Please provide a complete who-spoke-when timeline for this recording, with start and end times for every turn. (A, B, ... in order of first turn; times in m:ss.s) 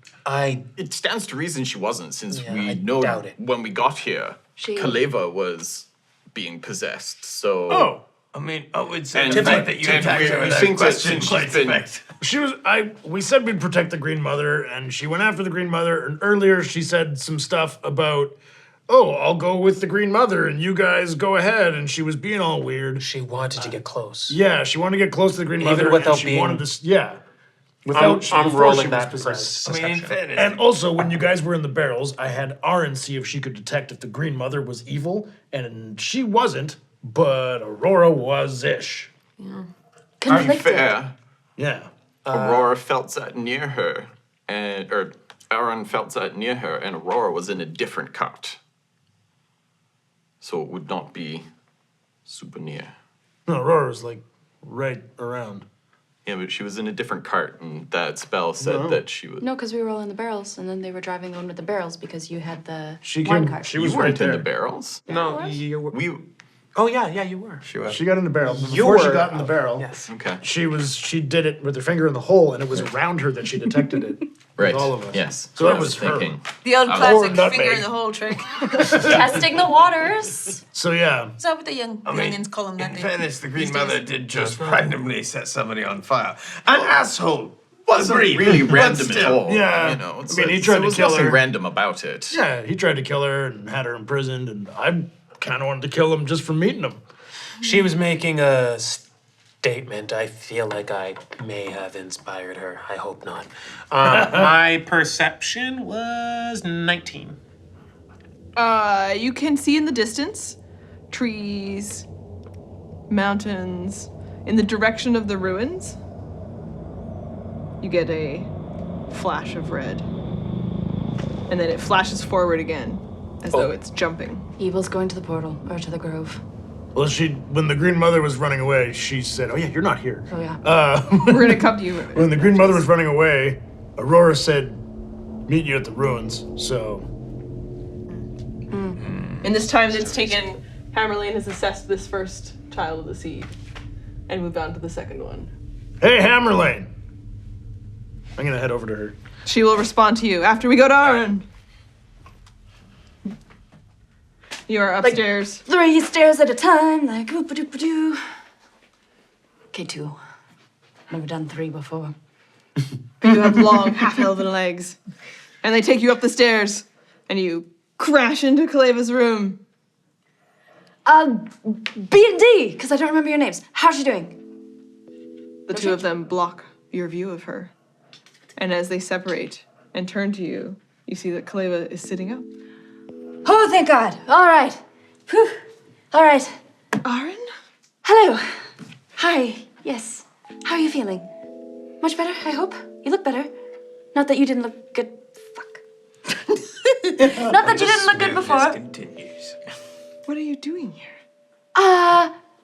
0:00.2-0:00.6 A
0:00.8-0:08.0 B
0:02.3-0:03.3 A
0:04.6-0:05.0 C
0:07.7-0:08.0 D
0:08.3-0:12.0 E
0:09.1-0:11.9 B
0:09.3-0:09.7 A
0:12.2-0:18.4 D
0:18.9-0:23.0 D
0:23.0-0:24.4 A
0:24.3-0:27.2 D
0:25.6-0:26.6 A
0:27.8-0:29.6 D
0:27.9-0:30.2 A
0:29.6-0:30.7 E
0:30.4-0:39.1 D
0:40.2-0:41.0 C
0:40.3-0:41.2 B
0:41.6-0:41.9 D
0:42.3-0:42.7 A
0:42.3-0:48.6 B
0:50.4-0:51.5 B
0:52.3-0:53.0 B
0:53.5-0:55.6 D
0:56.2-0:59.5 B
0:58.6-0:59.0 D
0:59.4-1:03.8 C
1:03.0-1:04.5 D
1:03.7-1:05.0 B
1:05.1-1:05.6 C
1:05.1-1:06.0 A
1:05.9-1:06.2 B
1:06.8-1:07.6 A
1:07.6-1:08.0 E
1:07.9-1:09.9 D
1:08.5-1:10.1 A
1:10.1-1:10.4 B
1:10.4-1:16.4 D
1:14.6-1:17.4 B
1:16.6-1:19.2 F
1:16.9-1:17.9 D
1:18.7-1:19.4 D
1:18.9-1:20.6 C
1:20.7-1:21.3 D
1:21.4-1:24.1 F
1:22.0-1:29.5 E
1:24.4-1:24.8 A
1:27.9-1:32.4 B
1:29.4-1:31.4 D
1:32.3-1:37.0 D
1:37.6-1:39.0 A
1:39.6-1:47.4 A
1:44.0-1:44.5 D
1:48.6-1:50.6 G
1:51.1-1:52.1 G
1:53.1-1:56.0 G
1:57.8-1:58.5 G
1:59.1-2:00.1 G
2:01.5-2:04.4 G
2:04.6-2:06.4 C
2:06.9-2:14.8 D
2:10.3-2:10.6 C
2:11.2-2:12.9 G
2:15.5-2:17.1 D
2:18.7-2:19.0 C
2:19.4-2:23.5 G
2:24.3-2:25.5 G
2:26.0-2:26.9 D
2:28.4-2:29.2 D
2:29.5-2:31.5 G
2:34.7-2:35.6 G
2:35.0-2:38.2 C
2:39.7-2:40.2 C
2:41.1-2:42.1 C
2:43.2-2:45.0 G
2:45.6-2:49.6 G
2:51.1-2:54.4 C
2:55.7-2:57.7 G
2:55.7-2:56.0 C
2:58.6-3:02.5 G
3:03.4-3:05.6 C
3:06.1-3:06.6 C
3:07.0-3:07.5 G
3:08.0-3:08.5 C
3:09.2-3:11.3 C
3:12.0-3:13.5 C
3:14.1-3:15.8 C
3:17.2-3:18.8 C
3:17.2-3:19.6 E
3:20.3-3:21.1 G
3:21.7-3:22.3 C